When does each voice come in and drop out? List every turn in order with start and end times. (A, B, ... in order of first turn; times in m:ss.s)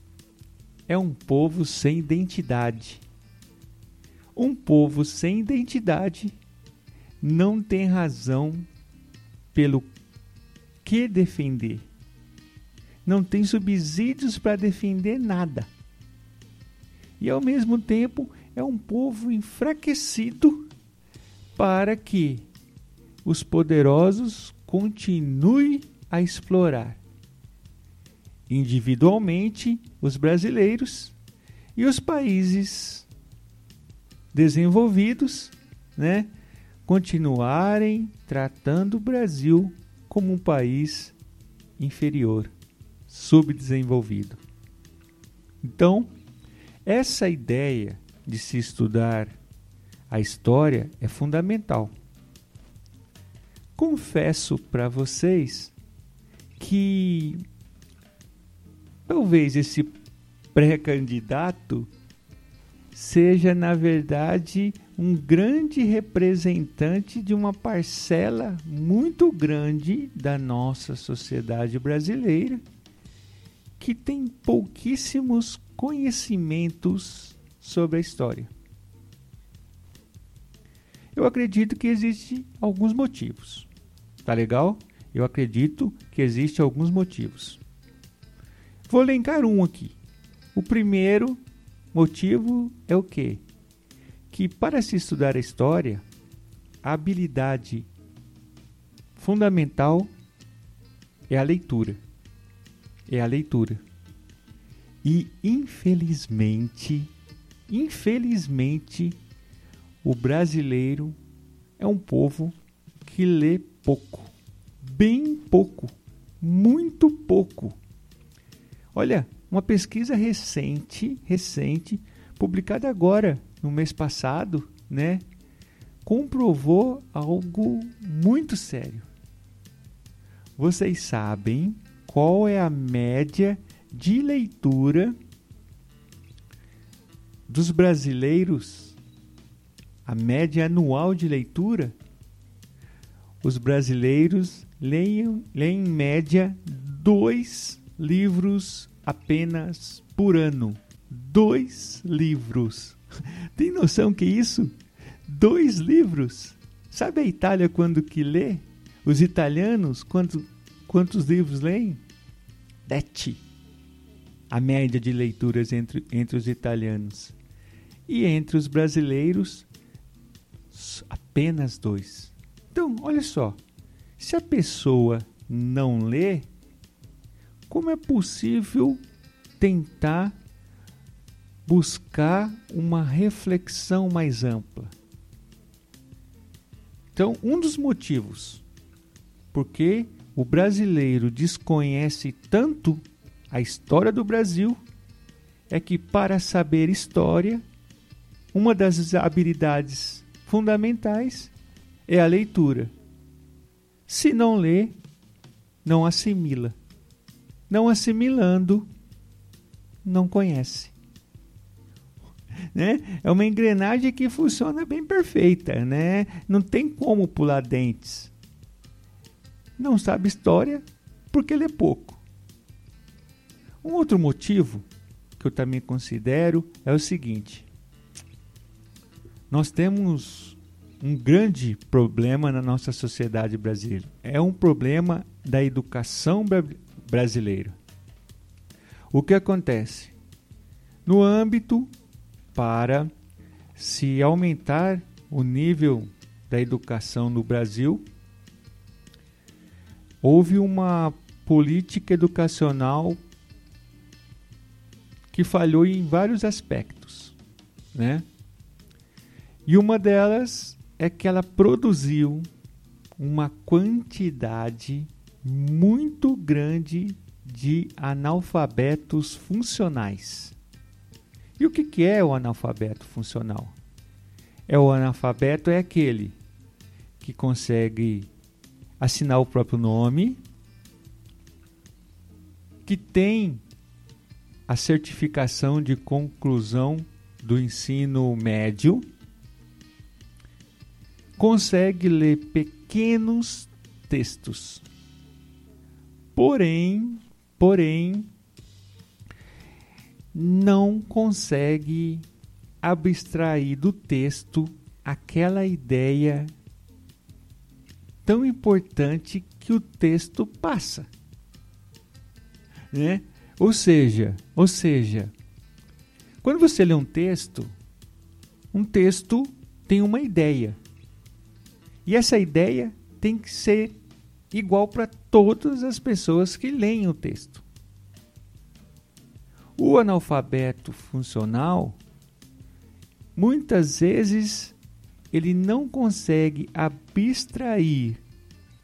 0:00.9-0:03.0 A
0:04.3-0:06.4 A
0:07.2-0:08.7 A
0:09.5-0:09.9 A
0:10.8-0:11.9 A
0:13.0-0:15.7 A
0:17.2-0:20.7 A
0:21.6-0:22.5 A
0:23.2-0:27.0 A
0:28.5-0:31.2 A
0:31.8-0:33.1 A
0:34.3-0:36.3 A
0:36.8-0:41.2 A
0:41.8-0:42.5 A
0:43.1-0:44.4 A
0:45.6-0:46.1 A
0:46.8-0:49.3 A
0:50.1-0:51.9 A
0:53.8-0:55.7 A
0:56.6-0:57.4 A
0:59.1-0:59.9 A
1:00.5-1:01.9 A
1:02.9-1:12.6 A
1:13.8-1:18.5 A
1:21.1-1:23.7 A
1:24.2-1:27.6 A
1:28.9-1:30.0 A
1:30.5-1:31.4 A
1:31.9-1:33.4 A
1:34.3-1:36.0 A
1:36.8-1:37.9 A
1:39.2-1:40.1 A
1:41.3-1:42.0 A
1:43.1-1:43.8 A
1:45.0-1:47.1 A
1:47.7-1:49.2 A
1:50.0-1:51.2 A
1:51.8-1:57.8 A
1:58.9-2:05.2 A
2:06.0-2:09.1 A
2:10.6-2:15.2 A
2:17.5-2:19.0 A
2:20.0-2:21.9 A
2:23.4-2:33.0 A
2:33.5-2:34.7 A
2:35.3-2:42.0 A
2:42.8-2:43.4 A
2:44.5-2:47.4 A
2:48.1-2:49.7 A
2:50.7-2:53.6 A
2:54.2-2:56.5 A
2:57.7-2:59.0 A
2:59.6-3:00.4 A
3:01.6-3:04.9 A
3:07.1-3:08.6 A
3:09.5-3:14.8 A
3:15.7-3:17.6 A
3:18.5-3:21.5 A
3:22.1-3:22.9 A
3:24.0-3:25.0 A
3:25.8-3:26.8 A
3:27.7-3:28.9 A
3:30.0-3:30.9 A
3:32.7-3:38.3 A
3:39.8-3:42.2 A
3:43.8-3:44.8 A
3:45.4-3:47.7 A
3:49.5-3:57.8 A
3:59.1-4:00.1 A
4:01.0-4:01.9 A
4:02.5-4:03.1 A
4:03.7-4:08.0 A
4:10.2-4:13.2 A
4:15.3-4:17.4 A
4:17.9-4:18.2 A
4:19.6-4:22.5 A
4:23.2-4:30.6 A
4:31.6-4:33.8 A
4:34.7-4:36.4 A
4:37.2-4:38.3 A
4:39.0-4:40.4 A
4:42.8-4:43.6 A
4:44.7-4:49.0 A
4:51.4-4:54.8 A
4:56.3-4:58.3 A
5:00.3-5:02.3 A
5:02.8-5:06.5 A
5:08.2-5:11.1 A
5:12.9-5:15.3 A
5:16.4-5:17.7 A
5:18.7-5:20.8 A
5:22.0-5:24.0 A
5:24.5-5:27.6 A
5:29.8-5:32.0 A
5:33.4-5:34.8 A
5:35.3-5:38.2 A